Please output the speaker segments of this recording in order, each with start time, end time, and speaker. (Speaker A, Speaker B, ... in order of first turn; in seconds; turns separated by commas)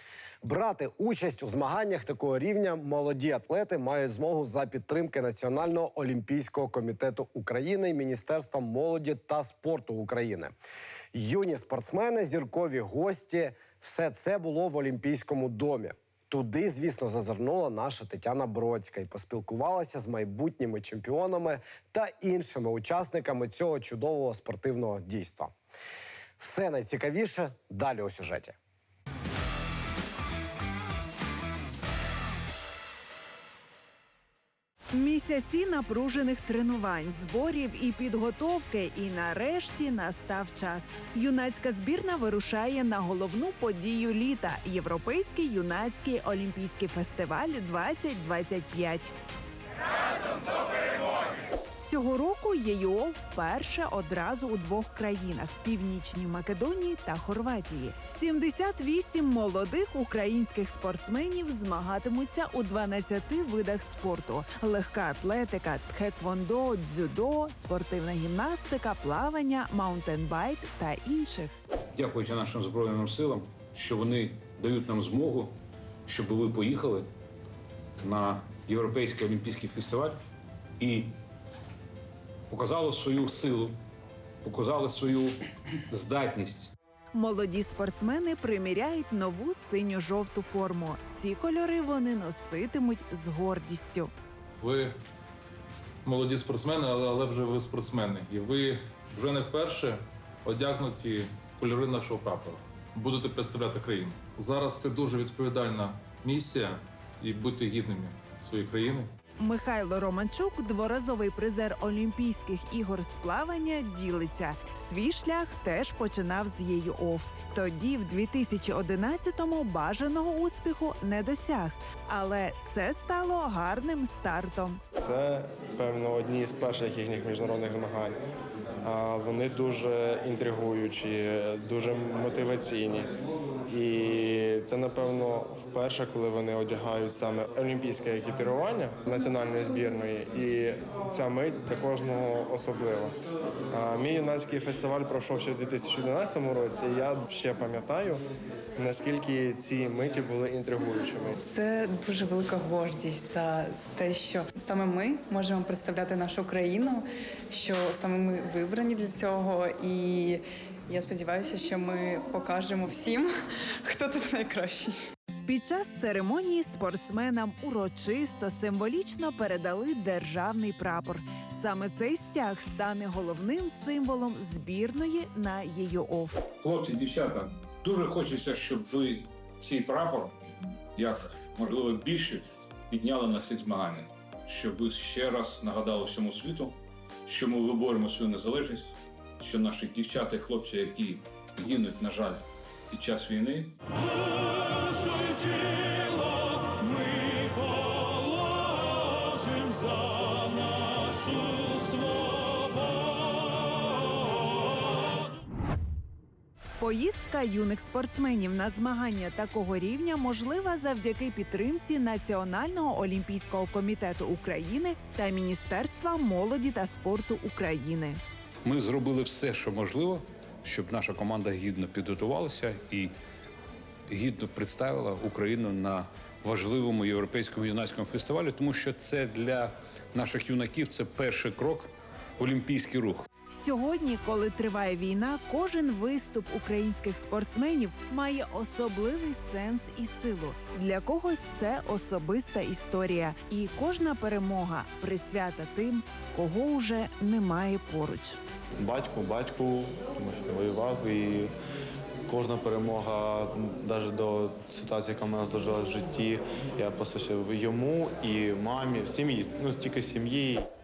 Speaker A: 0.4-10.5, Speaker A: 11.1-25.5, Speaker A: 26.4-28.5, Speaker B: 34.9-49.1, Speaker B: 51.9-71.5, Speaker C: 71.9-75.5, Speaker C: 76.1-77.1, Speaker C: 78.0-80.2, Speaker C: 80.8-81.1, Speaker C: 82.5-83.8, Speaker C: 84.4-85.4, Speaker C: 85.9-86.7, Speaker B: 87.1-94.1, Speaker D: 94.6-94.9, Speaker D: 96.0-109.1, Speaker B: 109.4-124.8, Speaker E: 125.0-128.2, Speaker E: 128.8-133.1, Speaker E: 133.7-143.1, Speaker E: 143.7-148.2, Speaker E: 148.8-151.4, Speaker F: 151.4-164.9, Speaker B: 165.4-176.4, Speaker C: 176.6-180.4, Speaker C: 180.9-193.7, Speaker B: 206.8-218.2, Speaker C: 218.6-223.1, Speaker C: 224.1-233.3, Speaker B: 233.5-248.4, Speaker G: 248.8-251.5, Speaker G: 252.3-260.6